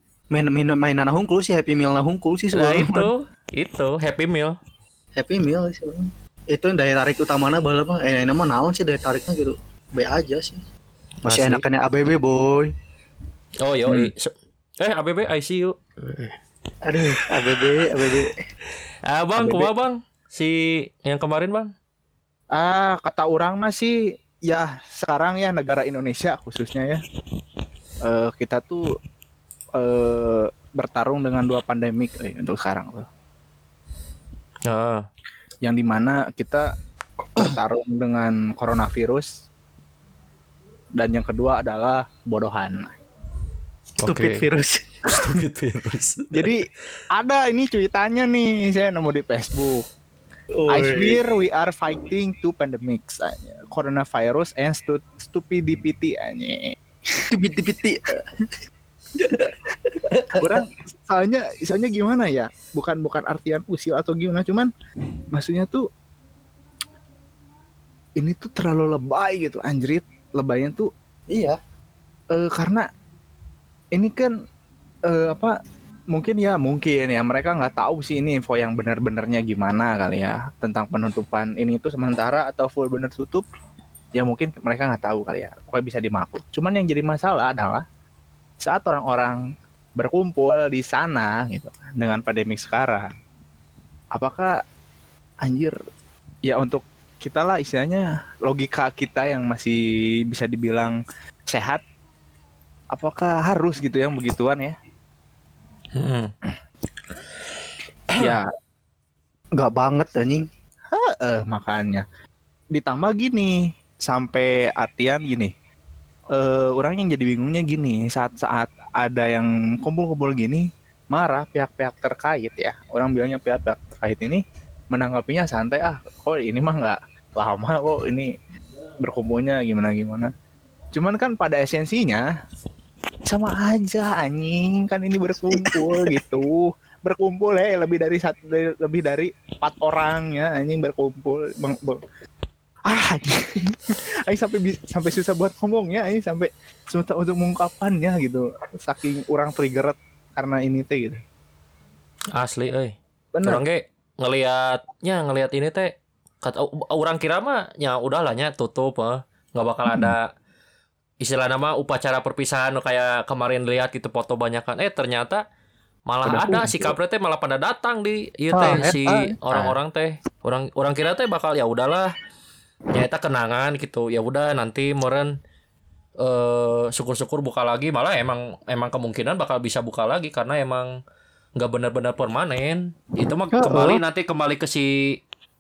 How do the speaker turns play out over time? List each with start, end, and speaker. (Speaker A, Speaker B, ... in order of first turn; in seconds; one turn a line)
Speaker A: 0.3-3.1
Speaker B: 2.5-4.5
Speaker A: 5.2-10.6
Speaker A: 11.2-12.7
Speaker C: 11.3-11.6
Speaker B: 13.6-16.4
Speaker A: 16.8-18.4
Speaker B: 17.6-18.0
Speaker B: 19.1-21.7
Speaker C: 19.4-19.7
Speaker C: 22.5-24.0
Speaker C: 24.5-27.0
Speaker C: 28.0-28.8
Speaker C: 29.8-33.1
Speaker B: 34.7-35.0
Speaker C: 35.6-36.7
Speaker C: 37.4-39.3
Speaker C: 41.0-43.0
Speaker B: 44.0-44.4
Speaker A: 44.1-44.9
Speaker B: 45.0-46.5
Speaker C: 46.3-49.9
Speaker A: 50.5-51.2
Speaker C: 50.7-57.2
Speaker A: 57.3-58.5
Speaker A: 59.2-60.6
Speaker C: 60.3-64.7
Speaker C: 65.3-65.9
Speaker C: 68.2-70.9
Speaker A: 71.3-71.6
Speaker C: 72.3-72.9
Speaker C: 74.0-74.3
Speaker C: 75.1-75.5
Speaker C: 76.1-83.5
Speaker C: 84.2-87.8
Speaker C: 88.6-89.4
Speaker C: 90.0-93.1
Speaker C: 94.1-94.5
Speaker C: 95.5-95.8
Speaker C: 96.5-101.0
Speaker C: 101.5-101.8
Speaker C: 102.9-104.8
Speaker B: 106.0-106.3
Speaker C: 108.2-108.5
Speaker A: 109.6-110.5
Speaker C: 110.9-112.0
Speaker C: 112.7-115.5
Speaker C: 116.3-128.3
Speaker C: 129.0-130.3
Speaker C: 130.9-132.2
Speaker C: 133.3-142.0
Speaker C: 142.9-151.2
Speaker B: 152.3-160.3
Speaker C: 153.3-153.6
Speaker B: 161.2-165.4
Speaker B: 166.1-172.1
Speaker C: 166.2-167.0
Speaker A: 168.5-169.3
Speaker B: 172.9-175.3
Speaker B: 176.2-180.9
Speaker B: 181.6-185.2
Speaker A: 183.5-184.0